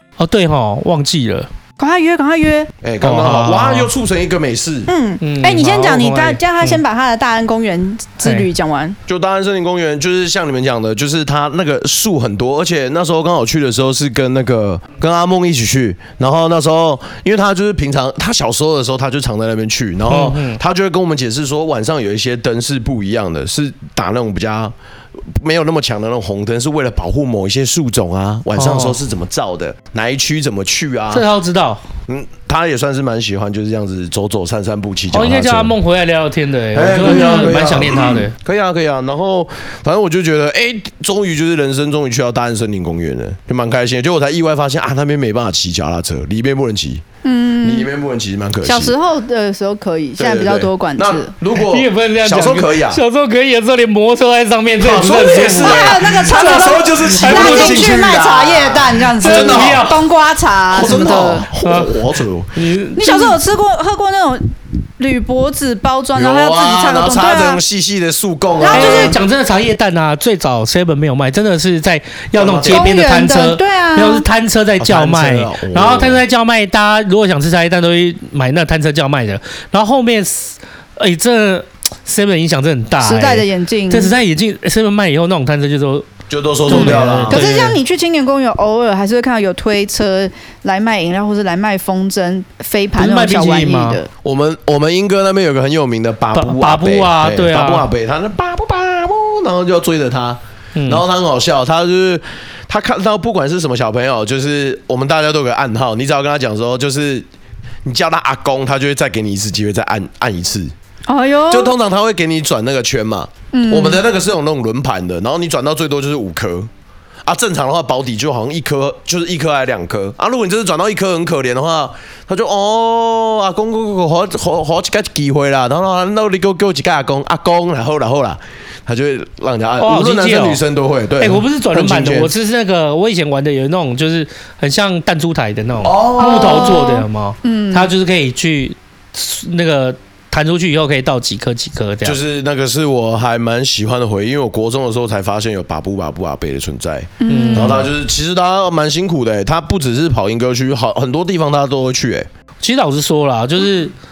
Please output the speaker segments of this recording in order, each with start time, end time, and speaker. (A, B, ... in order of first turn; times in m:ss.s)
0:00.2-0:01.5 A
0:01.8-0:02.7 B
0:02.8-0:04.9 C
0:03.0-0:03.9 A
0:04.9-0:09.0 B
0:05.2-0:06.8 A
0:09.1-0:31.2 C
0:20.1-0:20.6 A
0:28.5-0:29.0 A
0:31.1-0:31.8 A
0:32.1-0:35.7 C
0:35.1-0:38.3 A
0:36.7-0:47.0 C
0:37.0-0:37.5 B
0:47.2-0:47.9 B
0:47.6-0:48.9 C
0:48.6-0:51.3 B
0:50.2-0:53.0 C
0:51.5-0:58.0 A
0:54.8-0:59.9 C
0:55.0-1:01.5 B
0:59.2-1:00.0 A
1:00.7-1:02.5 C
1:01.6-1:03.4 A
1:03.0-1:04.5 B
1:05.0-1:07.6 B
1:06.1-1:09.2 C
1:08.6-1:09.2 B
1:08.7-1:26.0 A
1:12.3-1:12.9 C
1:12.7-1:14.2 B
1:14.8-1:16.2 C
1:23.0-1:24.1 B
1:26.3-1:27.4 C
1:26.7-1:27.8 A
1:26.7-1:34.1 B
1:33.0-1:34.0 A
1:34.2-1:47.3 C
1:36.3-1:37.9 A
1:40.7-1:41.0 A
1:47.8-1:50.7 C
1:51.1-1:51.7 B
1:51.5-1:56.7 C
1:53.5-1:54.0 B
1:57.2-2:12.3 C
2:09.8-2:10.6 A
2:11.2-2:22.2 A
2:15.8-2:16.8 C
2:16.2-2:17.9 B
2:22.0-2:32.3 C
2:27.2-2:27.9 B
2:27.3-2:27.8 A
2:32.6-2:33.9 A